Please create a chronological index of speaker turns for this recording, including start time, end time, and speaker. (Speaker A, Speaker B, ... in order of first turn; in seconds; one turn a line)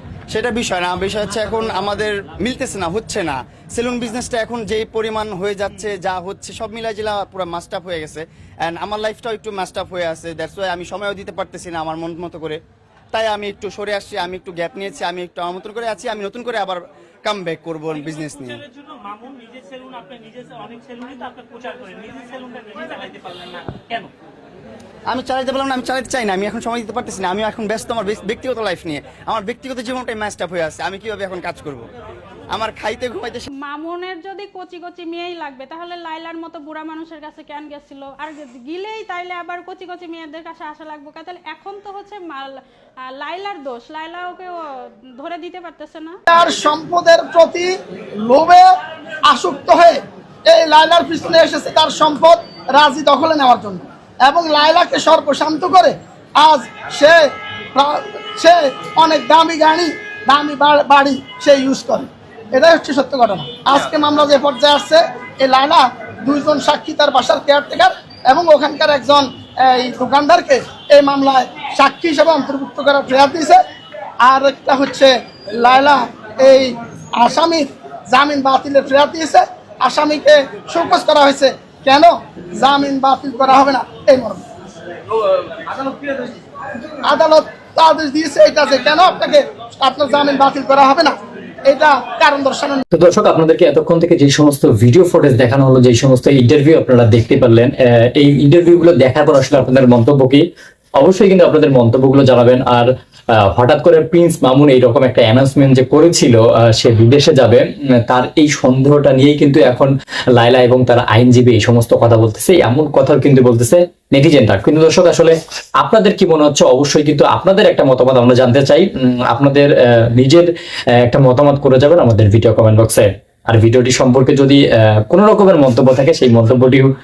Speaker A: 0.3-12.6
Speaker A: 13.1-18.6
Speaker B: 17.9-24.1
Speaker A: 25.1-31.9
Speaker A: 32.5-33.5
Speaker C: 33.6-42.5
Speaker C: 43.1-44.5
Speaker C: 45.2-46.2
Speaker D: 46.3-48.7
Speaker D: 49.2-57.2
Speaker D: 57.8-73.6
Speaker D: 74.2-84.4
Speaker D: 87.0-92.8
Speaker E: 92.9-100.4
Speaker E: 101.0-120.5
Speaker E: 121.0-126.9